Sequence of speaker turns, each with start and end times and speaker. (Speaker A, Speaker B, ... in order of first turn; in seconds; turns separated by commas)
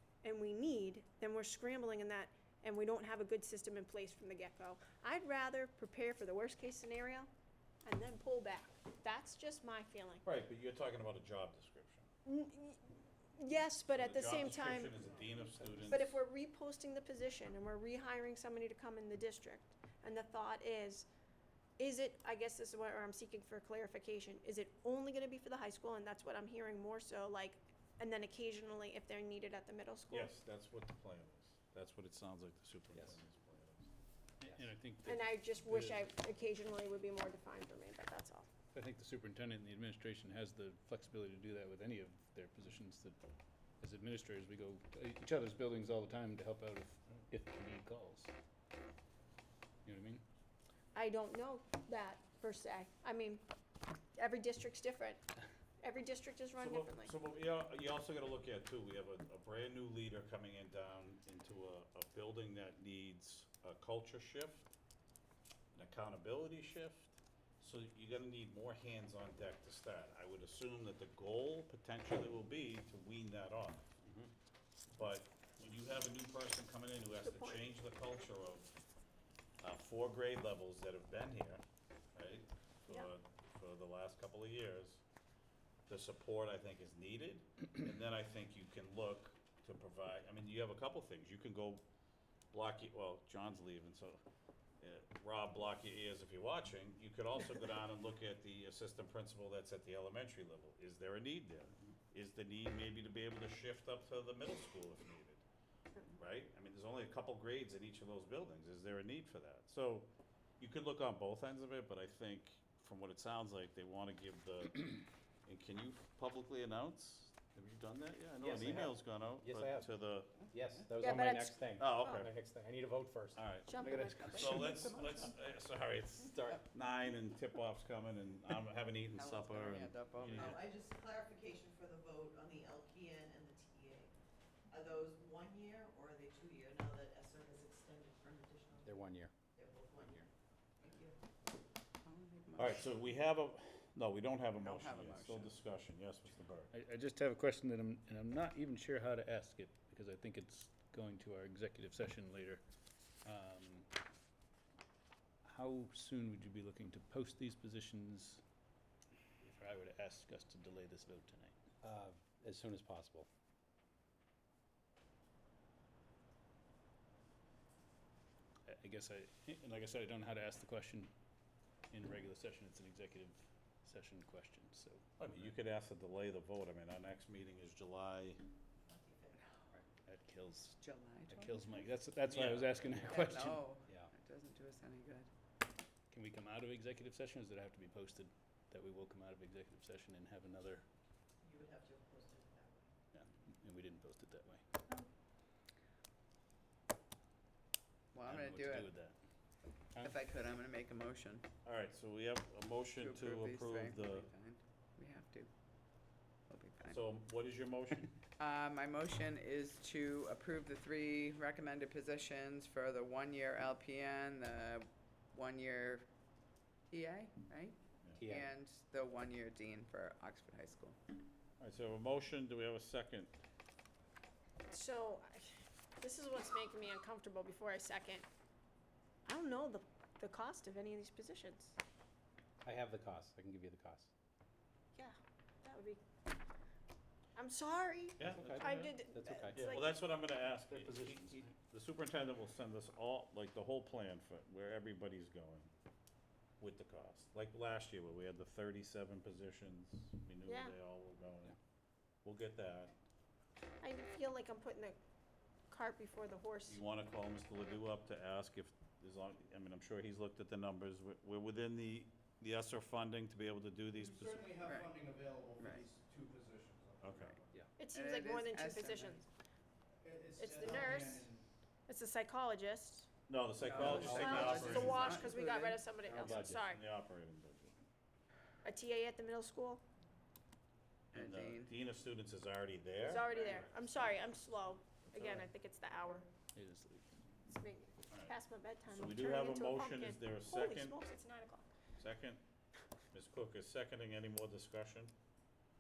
Speaker A: 0.2-7.3, Speaker A: 7.8-10.2, Speaker B: 10.2-12.1, Speaker A: 12.2-15.0, Speaker B: 13.9-16.2, Speaker A: 15.8-21.1, Speaker A: 21.8-30.3, Speaker B: 30.1-33.9, Speaker C: 34.4-36.1, Speaker A: 35.1-38.5, Speaker C: 38.7-43.2, Speaker C: 43.8-48.3, Speaker C: 49.9-50.2, Speaker A: 50.9-53.4, Speaker A: 54.1-55.2, Speaker A: 55.8-57.1, Speaker B: 56.6-64.7, Speaker B: 65.7-73.9, Speaker B: 75.0-78.7, Speaker B: 79.6-81.6, Speaker B: 82.2-85.0, Speaker B: 85.9-91.8, Speaker B: 92.5-94.2, Speaker B: 94.8-105.4, Speaker B: 106.2-110.1, Speaker B: 110.6-122.3, Speaker D: 118.4-123.4, Speaker A: 121.0-122.2, Speaker B: 123.3-123.7, Speaker A: 123.7-124.6, Speaker C: 123.8-124.9, Speaker B: 124.2-129.9, Speaker E: 124.9-125.3, Speaker E: 129.1-130.6, Speaker C: 130.2-130.7, Speaker F: 130.3-134.1, Speaker F: 134.7-138.9, Speaker D: 138.8-139.3, Speaker F: 139.6-140.3, Speaker F: 140.8-141.2, Speaker E: 142.0-143.1, Speaker B: 142.6-146.7, Speaker E: 144.6-145.6, Speaker C: 146.7-152.6, Speaker C: 153.2-153.9, Speaker C: 155.4-158.4, Speaker C: 159.4-161.5, Speaker D: 161.8-163.3, Speaker C: 168.7-171.1, Speaker C: 171.9-175.5, Speaker B: 175.2-178.4, Speaker F: 178.9-179.4, Speaker C: 180.1-180.8, Speaker E: 180.8-181.8, Speaker C: 181.4-183.6, Speaker B: 182.2-183.1, Speaker D: 182.8-183.3, Speaker E: 183.0-185.3, Speaker D: 183.8-184.1, Speaker C: 186.1-190.8, Speaker F: 191.4-192.9, Speaker C: 193.1-194.6, Speaker E: 198.1-198.9, Speaker C: 198.2-199.2, Speaker E: 200.0-201.4, Speaker B: 201.6-204.3, Speaker E: 203.0-205.5, Speaker E: 206.5-207.1, Speaker B: 206.8-208.1, Speaker E: 208.4-216.1, Speaker E: 216.9-221.0, Speaker D: 218.2-218.5, Speaker B: 221.6-223.3, Speaker A: 224.7-228.3, Speaker A: 229.3-231.8, Speaker D: 232.6-234.1, Speaker A: 234.9-236.0, Speaker A: 237.4-239.9, Speaker B: 238.2-238.9, Speaker D: 238.2-239.7, Speaker B: 239.6-245.7, Speaker C: 240.7-241.6, Speaker B: 246.6-251.6, Speaker A: 250.4-250.7, Speaker B: 252.2-252.9, Speaker A: 253.8-255.0, Speaker A: 255.7-256.8, Speaker B: 256.7-264.5, Speaker G: 264.1-267.5, Speaker E: 264.5-264.9, Speaker E: 265.6-265.9, Speaker B: 267.0-267.4, Speaker A: 267.8-269.3, Speaker E: 267.9-269.2, Speaker G: 270.0-271.5, Speaker A: 270.4-271.3, Speaker A: 271.9-273.1, Speaker B: 273.3-275.3, Speaker G: 273.6-275.2, Speaker E: 273.7-275.8, Speaker D: 273.9-274.5, Speaker A: 274.0-276.9, Speaker D: 276.1-276.6, Speaker B: 276.2-277.7, Speaker A: 278.6-279.8, Speaker E: 281.1-281.7, Speaker B: 281.1-283.5, Speaker A: 283.0-286.3, Speaker C: 286.6-287.1, Speaker A: 287.5-291.6, Speaker B: 288.9-291.0, Speaker B: 292.0-292.4, Speaker B: 293.1-295.1